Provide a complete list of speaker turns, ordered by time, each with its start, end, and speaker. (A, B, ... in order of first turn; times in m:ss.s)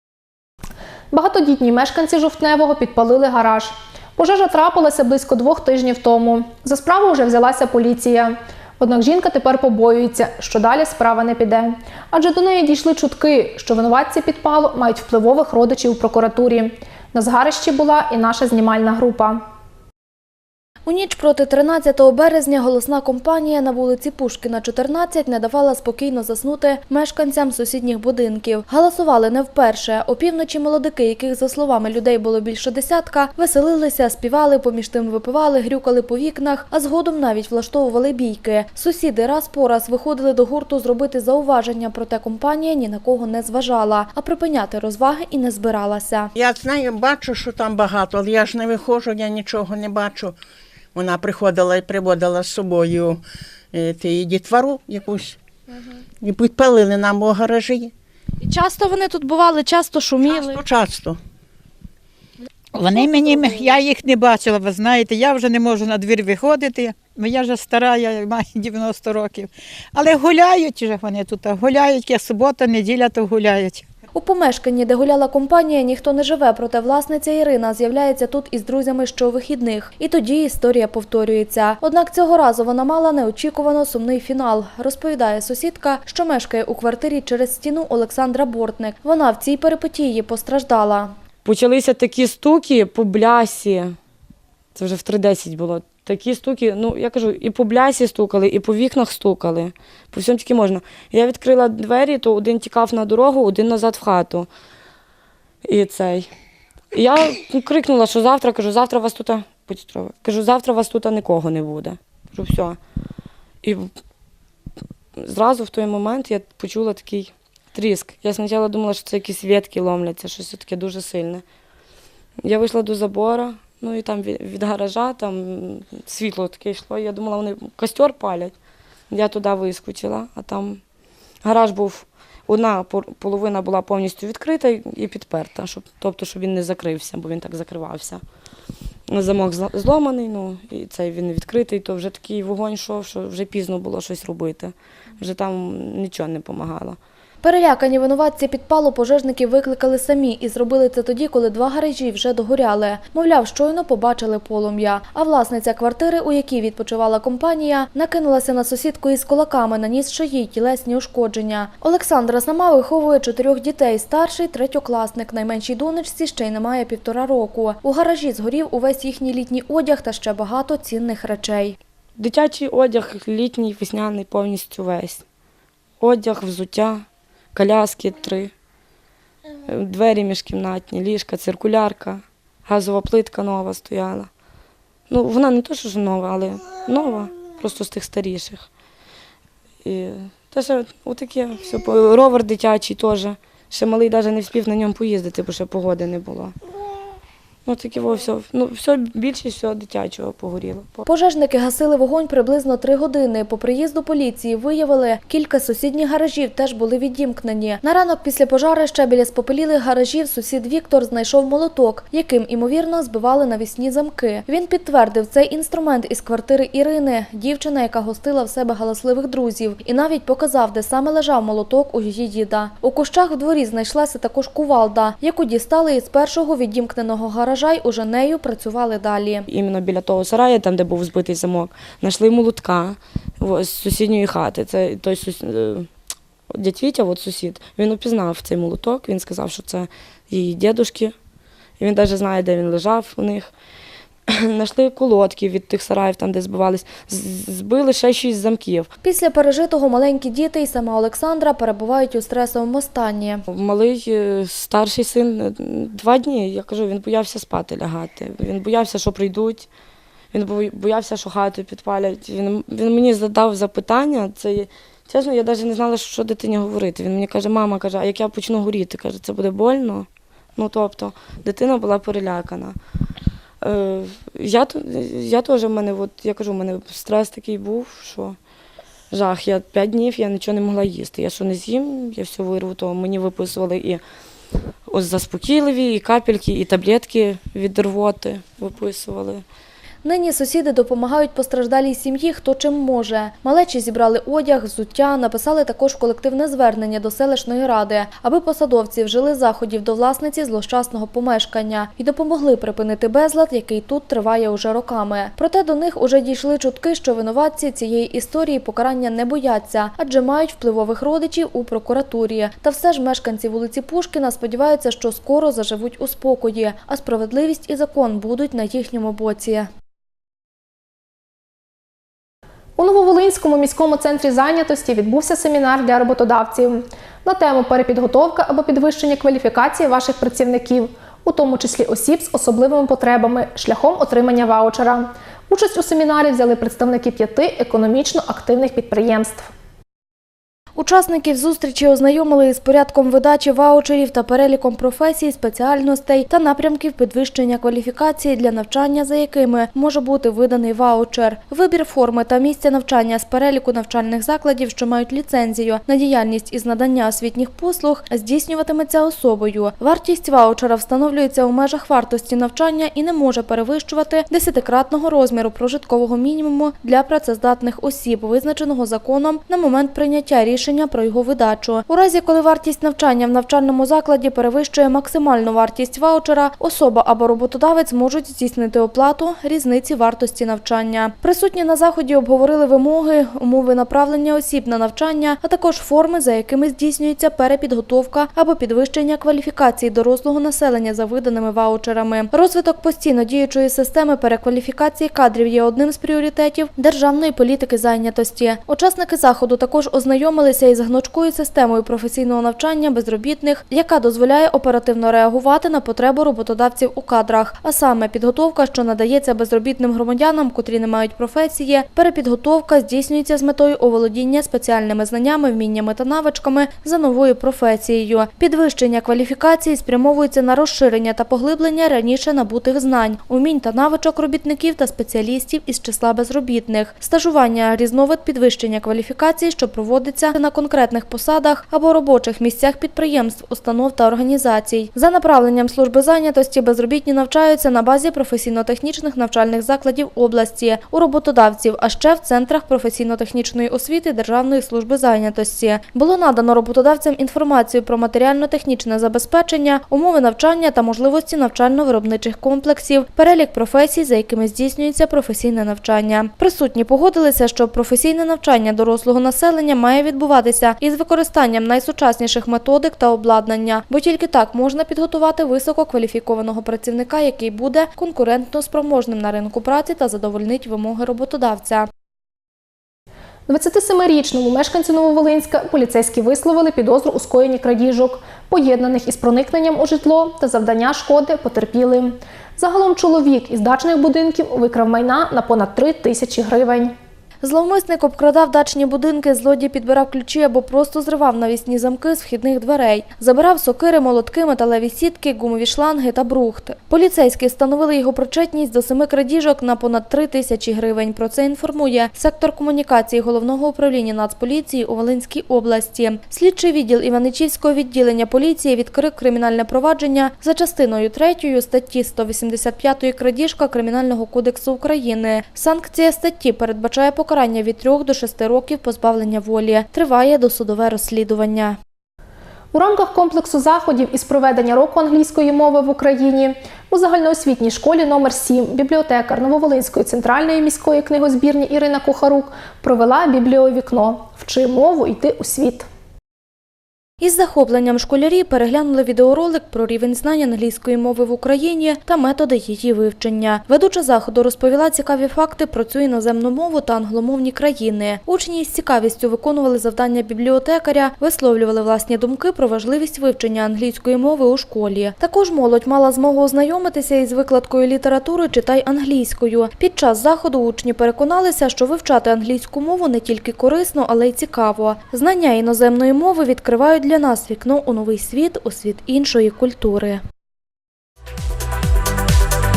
0:01.1-0:19.4 A
0:20.9-0:46.3 B
0:46.4-0:50.4 C
0:51.0-0:53.2 C
0:53.8-0:55.4 C
0:56.2-0:57.9 C
0:58.4-1:00.6 B
1:00.4-1:01.2 C
1:02.8-1:13.9 D
1:14.2-1:31.1 B
1:31.4-1:33.9 E
1:34.8-1:44.5 E
1:45.6-1:46.3 E
1:46.9-1:52.8 E
1:55.2-2:01.4 E
2:02.4-2:08.5 E
2:09.1-2:10.8 E
2:11.4-2:18.2 E
2:19.1-2:27.0 E
2:27.4-2:51.8 B
2:52.2-2:55.2 E
2:56.0-2:58.5 E
2:59.7-3:04.3 E
3:05.1-3:08.7 E
3:09.8-3:16.6 E
3:17.7-3:21.1 E
3:21.1-3:49.5 B
3:49.5-3:55.9 E
3:56.5-4:01.1 E
4:01.8-4:03.5 E
4:04.3-4:08.9 E
4:09.0-4:13.4 B
4:13.5-4:19.7 E
4:20.3-4:32.8 E
4:33.6-4:38.4 E
4:39.1-4:44.0 E
4:44.9-4:49.4 E
4:50.0-5:19.7 B
5:22.8-5:39.5 A
5:40.8-7:51.9 B
7:53.5-8:06.9 A
8:07.4-8:41.8 B
8:42.7-8:55.9 A
8:57.2-9:30.2 B